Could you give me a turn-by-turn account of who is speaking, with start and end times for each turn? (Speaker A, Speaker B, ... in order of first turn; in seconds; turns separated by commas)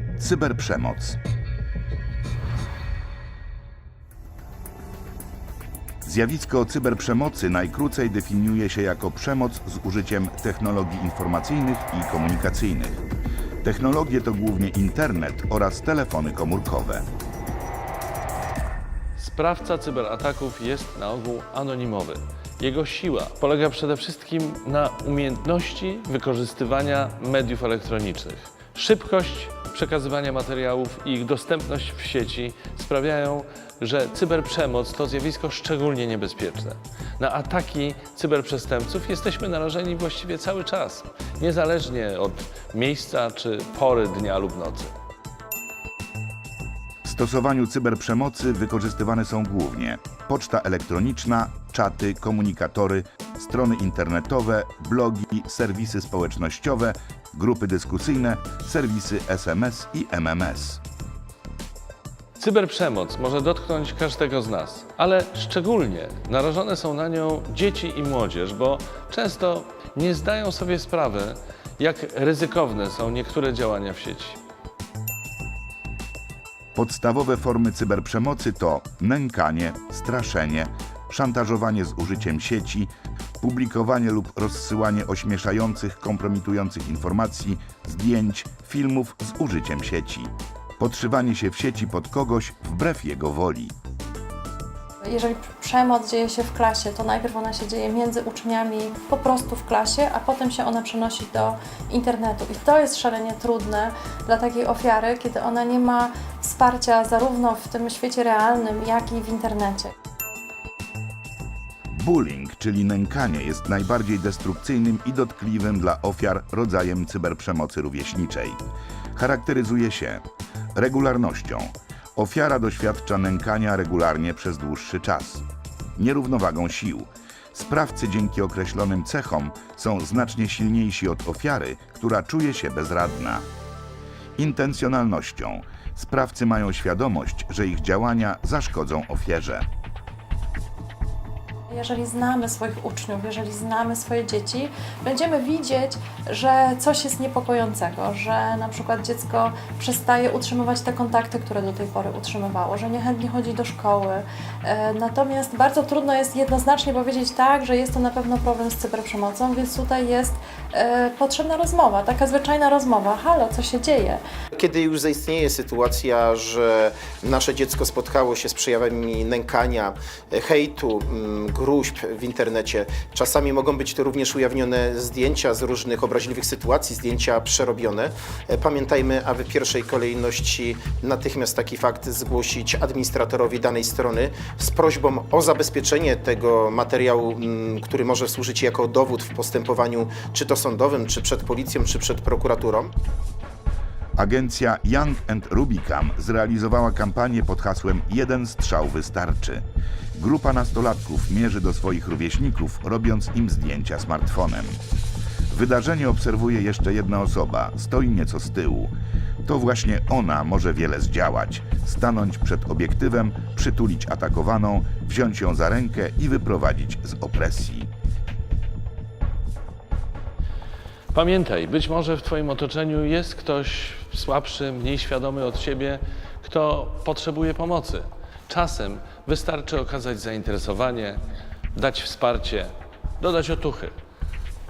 Speaker A: 0.2-1.2, Speaker A: 6.0-13.0, Speaker A: 13.6-17.1, Speaker B: 19.2-44.9, Speaker A: 47.0-60.8, Speaker B: 62.4-74.4, Speaker A: 76.7-93.7, Speaker C: 95.0-109.9, Speaker A: 111.9-118.6, Speaker A: 119.1-120.2, Speaker A: 120.7-125.4, Speaker A: 126.0-133.4, Speaker A: 134.4-139.7, Speaker C: 141.7-164.2, Speaker D: 164.5-192.9, Speaker A: 194.2-199.6, Speaker A: 200.1-204.8, Speaker A: 205.5-208.9, Speaker A: 209.4-217.9, Speaker B: 221.1-231.2, Speaker B: 231.7-233.9